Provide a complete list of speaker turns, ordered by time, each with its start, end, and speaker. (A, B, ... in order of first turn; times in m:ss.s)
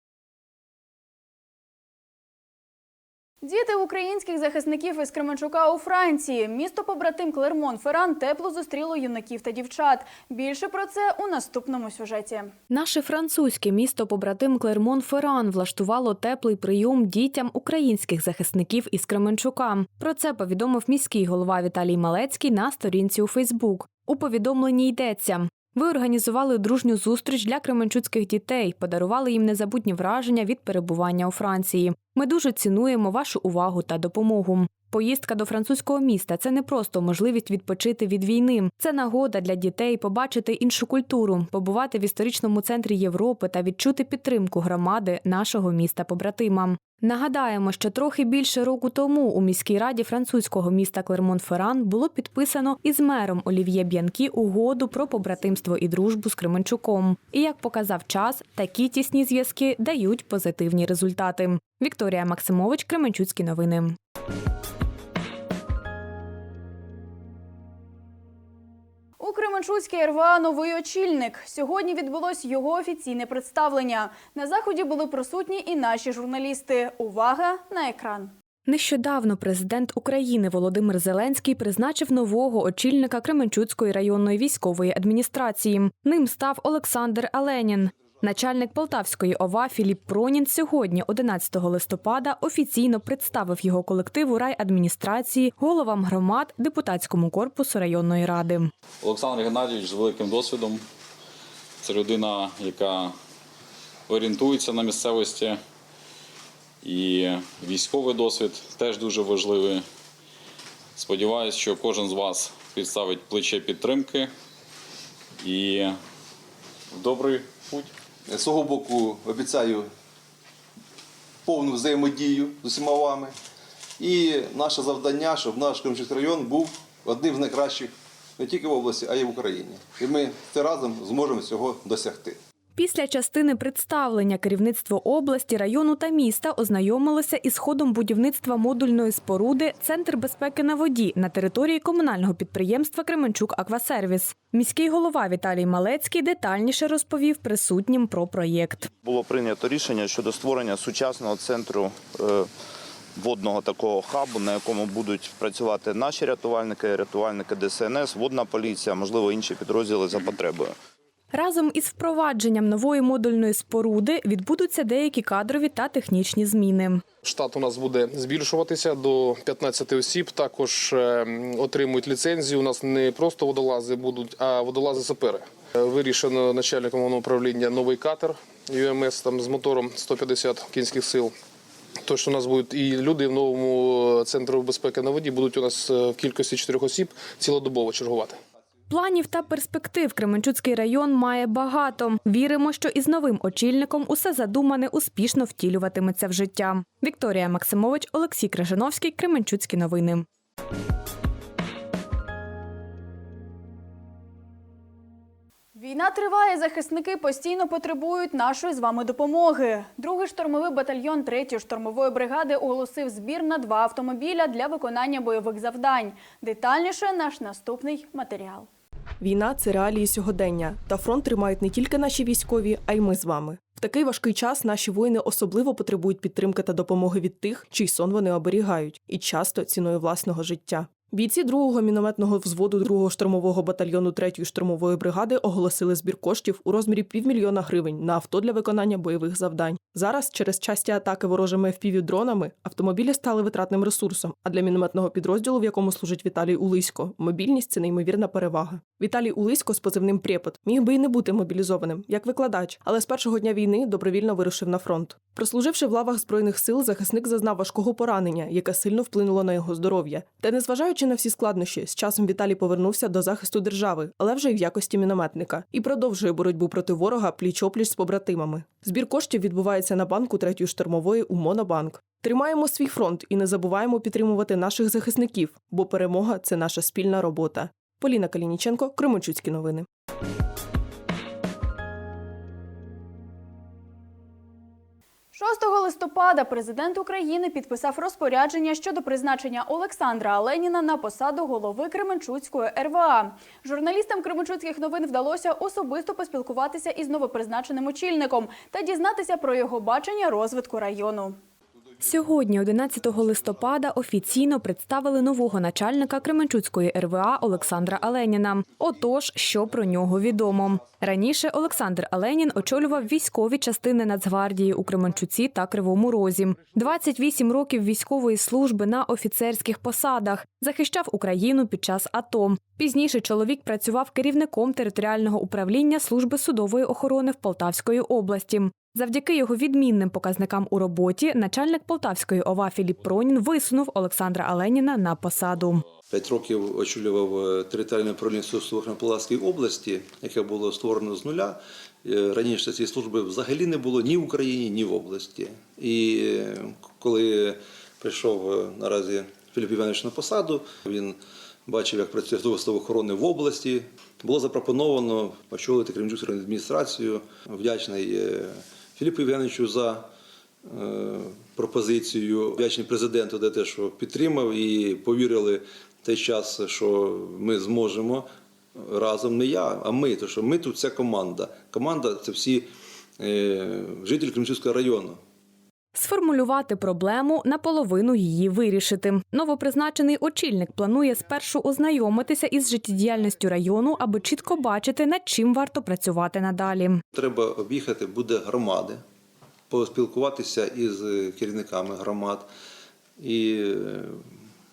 0:03.4-0:12.5 A
0:12.7-1:04.0 B
1:09.2-1:18.3 A
1:18.6-1:38.7 B
1:39.0-1:40.8 C
1:41.8-1:43.1 C
1:44.1-1:45.6 C
1:46.8-1:49.8 C
1:51.0-1:54.3 C
1:55.4-1:56.0 C
1:56.9-1:57.9 C
1:58.3-1:59.9 D
2:01.4-2:03.3 D
2:04.0-2:12.4 D
2:12.8-2:28.9 B
2:29.0-2:32.5 E
2:33.2-2:40.7 E
2:41.3-2:47.0 B
2:47.2-3:01.3 F
3:02.0-3:08.4 F
3:08.9-3:20.2 B
3:25.7-3:38.7 A
3:39.2-4:39.8 G
4:45.3-5:01.4 A
5:02.0-5:35.8 B
5:36.1-6:00.1 D
6:00.6-6:12.7 D
6:13.2-6:15.2 D
6:15.9-6:27.0 B
6:27.1-6:29.0 D
6:29.7-6:32.5 D
6:33.2-6:34.2 D